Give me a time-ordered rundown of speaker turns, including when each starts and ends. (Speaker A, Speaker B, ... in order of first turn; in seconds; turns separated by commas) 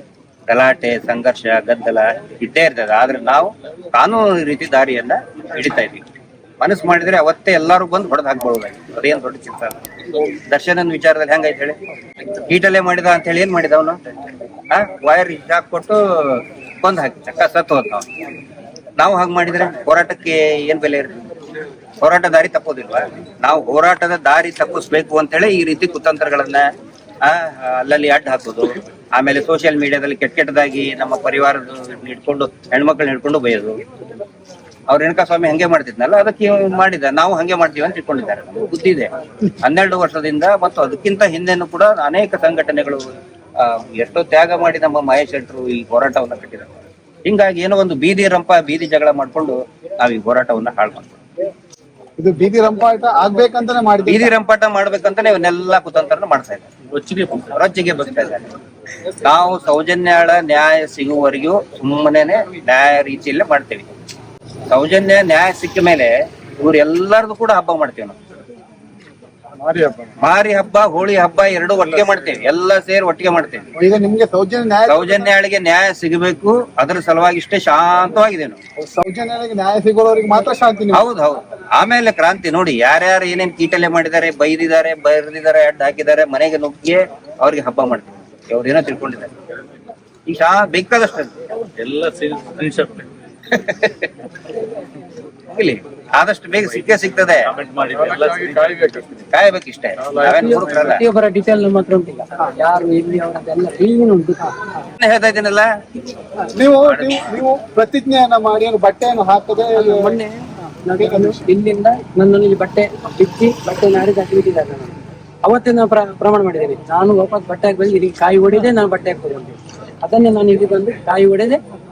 Speaker A: 0.5-6.0, Speaker A: 6.6-9.8, Speaker A: 10.4-11.8, Speaker A: 12.3-14.0, Speaker A: 14.7-18.1, Speaker A: 19.0-21.2, Speaker A: 22.0-26.7, Speaker A: 27.2-33.8, Speaker A: 34.9-39.1, Speaker A: 39.6-46.7, Speaker A: 47.2-51.2, Speaker B: 52.2-54.3, Speaker A: 54.0-56.7, Speaker C: 56.9-57.5, Speaker A: 57.5-58.5, Speaker A: 59.1-63.9, Speaker A: 64.7-68.2, Speaker D: 69.6-70.1, Speaker A: 70.2-73.7, Speaker B: 73.8-75.3, Speaker A: 74.9-78.6, Speaker B: 78.8-81.0, Speaker A: 80.9-89.3, Speaker A: 90.3-91.3, Speaker C: 91.7-93.1, Speaker A: 93.5-94.1, Speaker A: 95.5-97.5, Speaker C: 97.4-98.9, Speaker D: 97.9-99.3, Speaker A: 99.3-101.0, Speaker D: 100.0-101.0, Speaker E: 100.8-104.7, Speaker A: 105.0-105.7, Speaker B: 106.5-110.1, Speaker A: 106.7-107.2, Speaker E: 109.8-121.6, Speaker B: 111.0-111.4